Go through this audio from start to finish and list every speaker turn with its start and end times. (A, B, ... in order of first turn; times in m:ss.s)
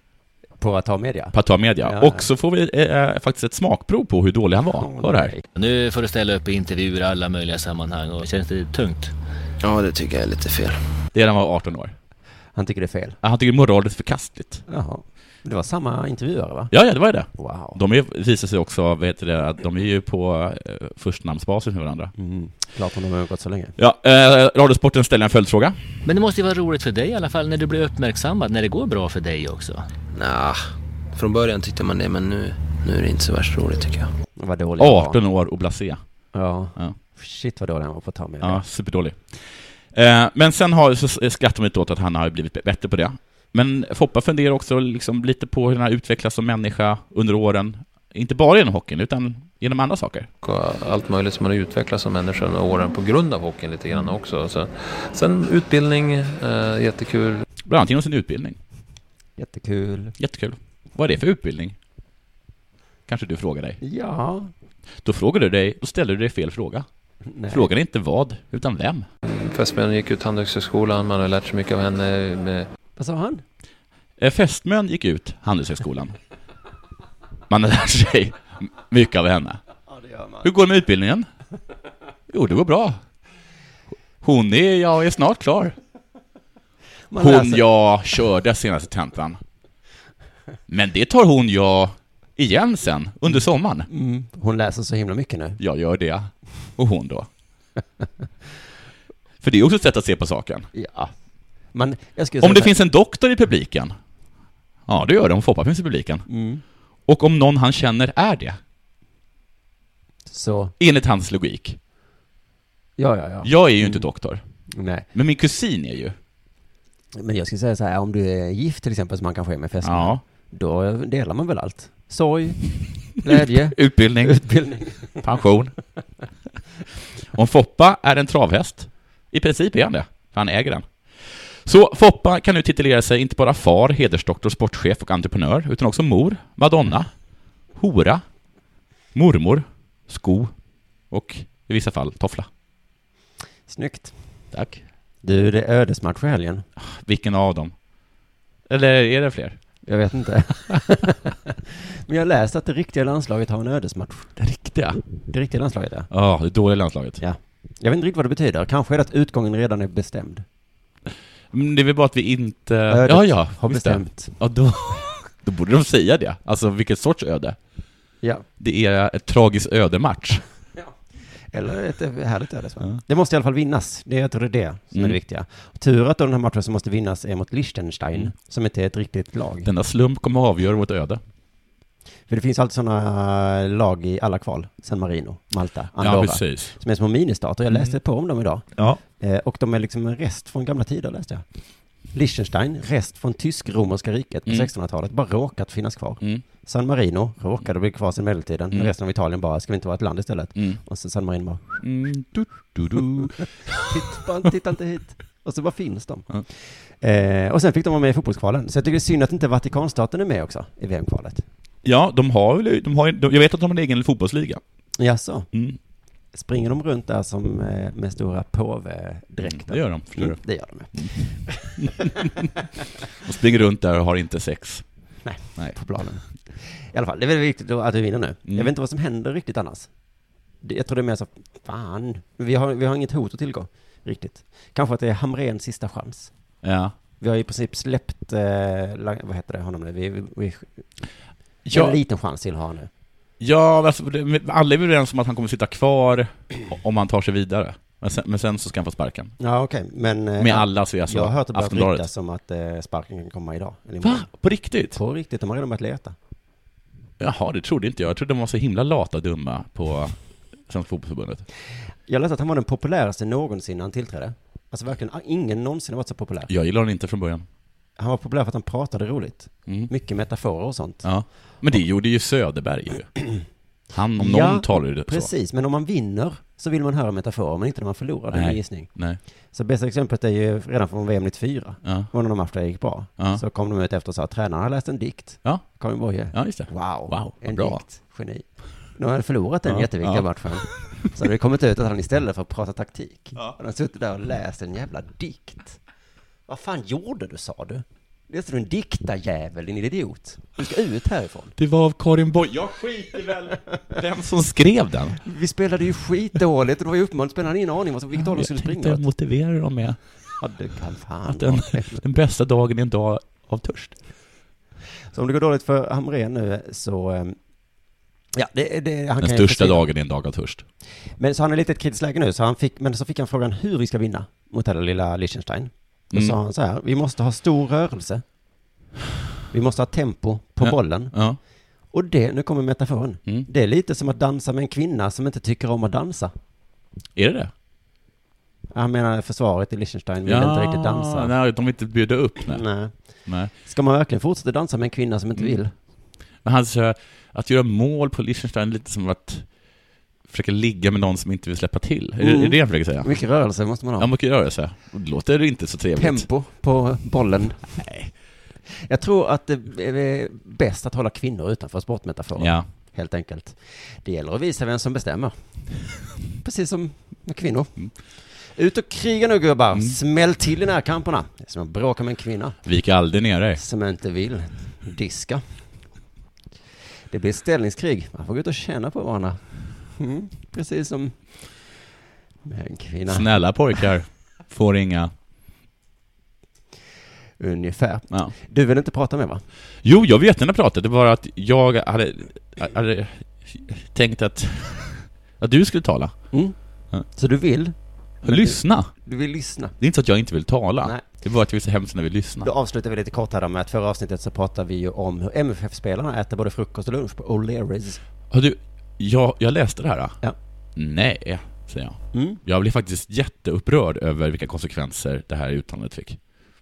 0:00.6-0:02.3 A
0:01.3-0:05.3 B
0:04.8-0:05.4 A
0:05.6-0:09.1 C
0:09.6-0:10.8 D
0:11.1-0:12.0 B
0:12.6-0:13.2 A
0:13.2-0:14.6 B
0:14.7-0:16.7 A
0:16.7-0:22.1 B
0:17.4-0:17.8 A
0:22.2-0:23.8 A
0:23.8-0:25.8 B
0:26.0-0:29.9 C
0:30.1-0:34.1 D
0:34.4-0:35.2 A
0:34.8-0:36.0 B
0:36.3-0:38.6 A
0:38.4-0:50.3 B
0:50.4-0:57.5 E
0:57.6-0:58.6 B
0:59.4-1:00.2 A
1:00.2-1:01.8 B
1:03.1-1:03.8 B
1:03.8-1:04.5 A
1:05.0-1:06.9 B
1:07.3-1:07.7 A
1:07.5-1:09.1 B
1:09.2-1:12.7 E
1:13.0-1:13.4 A
1:14.2-1:16.2 B
1:17.5-1:19.6 B
1:19.9-1:20.5 A
1:20.4-1:21.3 B
1:22.3-1:23.0 B
1:24.2-1:25.8 B
1:27.1-1:27.6 A
1:27.2-1:29.4 B
1:30.7-1:33.9 B
1:33.9-1:35.6 A
1:35.6-1:37.3 B
1:39.4-1:40.7 B
1:40.7-1:41.1 A
1:41.7-1:42.8 A
1:42.4-1:44.0 B
1:44.9-1:46.3 B
1:46.3-1:46.6 A
1:47.1-1:48.6 B
1:50.3-1:50.7 A
1:50.8-1:51.8 B
1:53.0-1:54.0 A
1:53.4-1:54.4 B
1:54.7-1:55.1 A
1:55.1-1:56.2 B
1:57.2-2:05.2 A
1:59.8-2:00.2 B
2:03.2-2:04.4 B
2:05.2-2:05.7 B
2:07.3-2:17.1 B
2:17.8-2:18.2 B
2:19.2-2:20.5 B
2:21.1-2:22.5 B
2:23.7-2:24.1 A
2:24.5-2:24.8 B
2:25.2-2:26.6 A
2:26.8-2:27.7 B
2:28.7-2:29.6 B
2:29.9-2:34.4 A
2:34.4-2:35.0 B
2:35.2-2:36.1 A
2:36.1-2:37.2 B
2:37.2-2:40.4 A
2:41.5-2:47.6 B
2:42.9-2:44.4 A
2:48.6-2:50.4 B
2:51.5-2:59.7 A
2:59.6-3:01.2 B
3:02.3-3:11.4 A
3:06.0-3:06.8 B
3:08.8-3:09.0 B
3:12.1-3:21.8 A
3:21.8-3:24.0 B
3:23.7-3:31.4 A
3:31.8-3:34.6 B
3:35.0-3:35.5 A
3:35.5-3:35.8 B
3:36.3-3:42.5 A
3:39.4-3:40.4 B
3:40.9-3:42.5 B
3:43.2-3:44.8 B
3:45.2-3:49.9 A
3:50.6-3:56.3 A
3:56.6-3:57.0 B
3:57.2-4:00.8 A
4:01.6-4:02.0 B
4:01.7-4:02.9 A
4:03.4-4:09.3 B
4:09.4-4:14.3 A
4:10.4-4:12.1 B
4:14.0-4:15.0 B
4:14.9-4:16.2 A
4:17.2-4:21.4 B
4:22.1-4:26.5 A
4:26.5-4:27.5 B
4:28.0-4:31.1 A
4:31.0-4:33.2 B
4:33.9-4:35.3 B
4:34.2-4:38.9 A
4:38.3-4:39.2 B
4:39.5-4:55.8 A
4:41.8-4:42.1 B
4:46.3-4:47.8 B
4:49.7-4:50.3 B
4:56.5-5:01.6 A
5:01.6-5:05.2 B
5:05.2-5:09.0 A
5:08.1-5:10.0 B
5:10.4-5:12.0 A
5:11.3-5:14.0 B
5:15.1-5:17.4 A
5:18.3-5:19.8 A
5:19.2-5:20.6 B
5:21.2-5:28.2 A
5:29.5-5:31.2 A
5:30.6-5:31.4 B
5:31.9-5:36.3 A
5:37.2-5:37.5 B
5:38.7-5:41.3 A
5:40.2-5:42.6 B
5:42.5-5:43.0 A
5:43.3-5:43.5 B
5:43.5-5:45.7 A
5:46.4-5:49.5 B
5:50.3-5:53.2 B
5:52.2-5:54.1 A
5:54.0-5:56.3 B
5:56.0-5:57.8 A
5:57.8-5:58.1 B
5:58.7-6:05.4 A
6:02.4-6:02.7 B
6:06.4-6:07.8 A
6:08.4-6:12.6 A
6:12.6-6:13.6 B
6:13.6-6:15.6 A
6:17.1-6:21.7 A
6:22.4-6:23.4 A
6:23.1-6:25.1 B
6:27.4-6:29.4 A
6:29.8-6:36.2 B
6:37.1-6:39.7 A
6:38.2-6:38.9 B
6:39.8-6:42.5 B
6:42.4-6:48.0 A
6:48.3-6:50.2 B
6:50.8-6:56.2 B
6:52.1-6:52.4 A